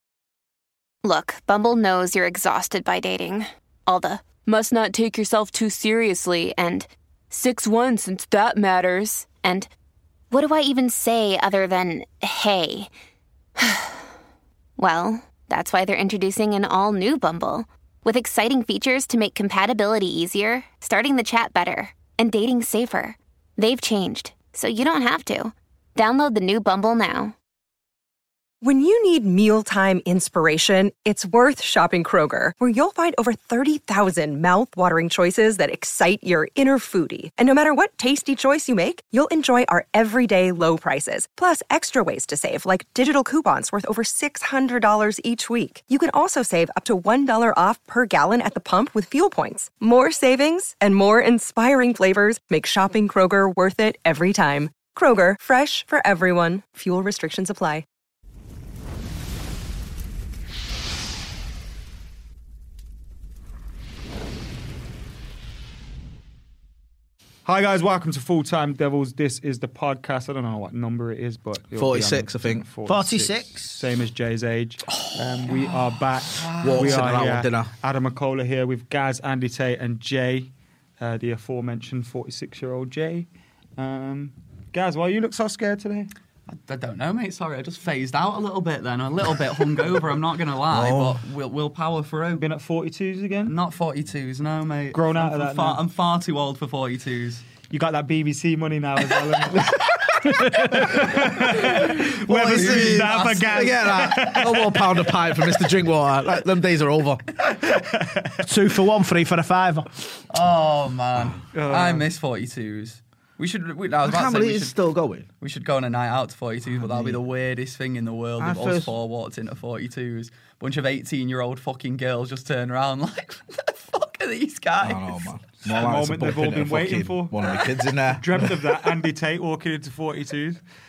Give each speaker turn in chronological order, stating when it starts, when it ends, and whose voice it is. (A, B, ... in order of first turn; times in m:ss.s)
0:01.0-0:09.7 A
0:10.3-0:12.9 A
0:13.6-0:14.0 A
0:14.8-0:27.3 A
0:28.6-0:57.8 B
1:07.4-1:26.1 C
1:11.8-1:12.6 D
1:12.8-1:13.8 E
1:14.9-1:15.7 F
1:16.3-1:17.1 F
1:16.6-1:17.7 D
1:26.5-1:32.4 F
1:30.7-1:31.2 D
1:32.4-1:33.5 C
1:33.5-1:37.4 F
1:34.9-1:35.8 C
1:37.7-1:45.0 C
1:39.6-1:47.2 D
1:40.9-1:43.9 F
1:47.5-1:48.4 C
1:48.4-1:49.9 E
1:50.3-1:54.8 F
1:51.5-1:52.0 C
1:54.0-1:55.3 D
1:55.4-2:05.2 F
1:56.7-1:57.2 D
1:58.4-1:58.9 D
2:04.8-2:08.5 D
2:05.6-2:07.4 C
2:08.1-2:10.6 C